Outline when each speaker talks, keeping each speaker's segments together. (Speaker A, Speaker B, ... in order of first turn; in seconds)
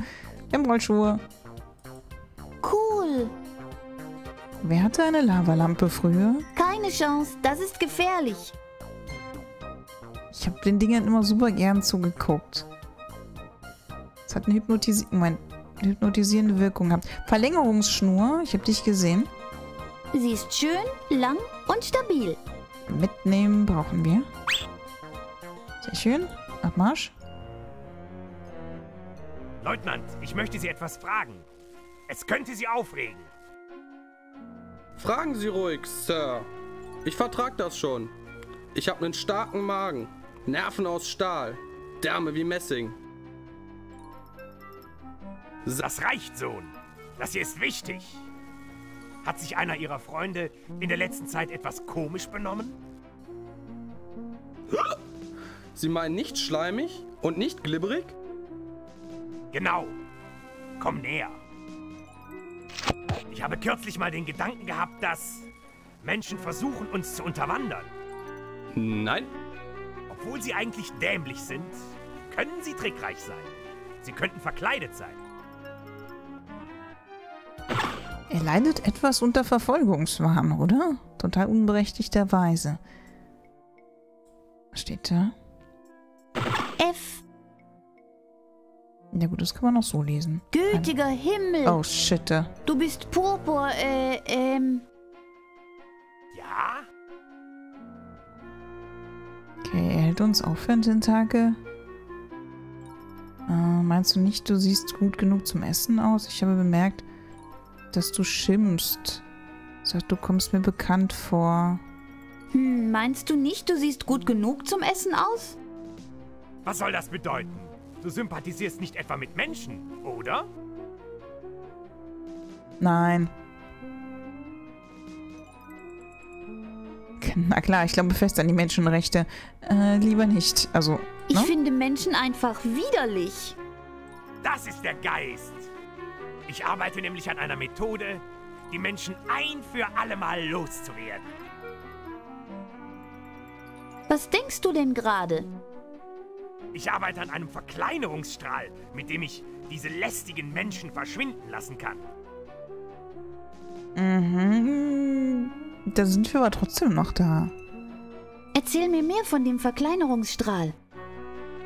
Speaker A: 0.5-1.2, 4.6-6.5, 10.3-12.7, 14.2-19.3, 22.9-24.3, 25.8-27.1, 78.3-82.8, 84.7-85.3, 89.1-90.9, 91.6-92.5, 99.6-101.6, 103.5-107.0, 107.9-109.2, 109.8-111.8, 122.8-123.3, 127.2-131.5, 153.9-157.5
Speaker B: 2.6-3.3, 6.5-8.5, 20.1-22.4, 86.8-87.2, 90.5-91.8, 92.6-94.8, 112.5-115.6, 131.3-133.6, 144.1-145.5, 158.5-160.7
Speaker C: 29.6-31.4, 32.1-33.3, 45.6-48.2, 49.2-52.8, 59.5-60.0, 60.8-61.4, 63.3-65.5, 66.0-67.9, 70.1-71.8, 72.3-75.2, 96.3-96.8, 116.6-120.5, 134.4-135.7, 136.5-141.3, 146.7-152.0
Speaker D: 35.0-36.5, 37.0-38.1, 38.7-43.0, 54.7-55.0, 55.7-58.1, 68.7-69.3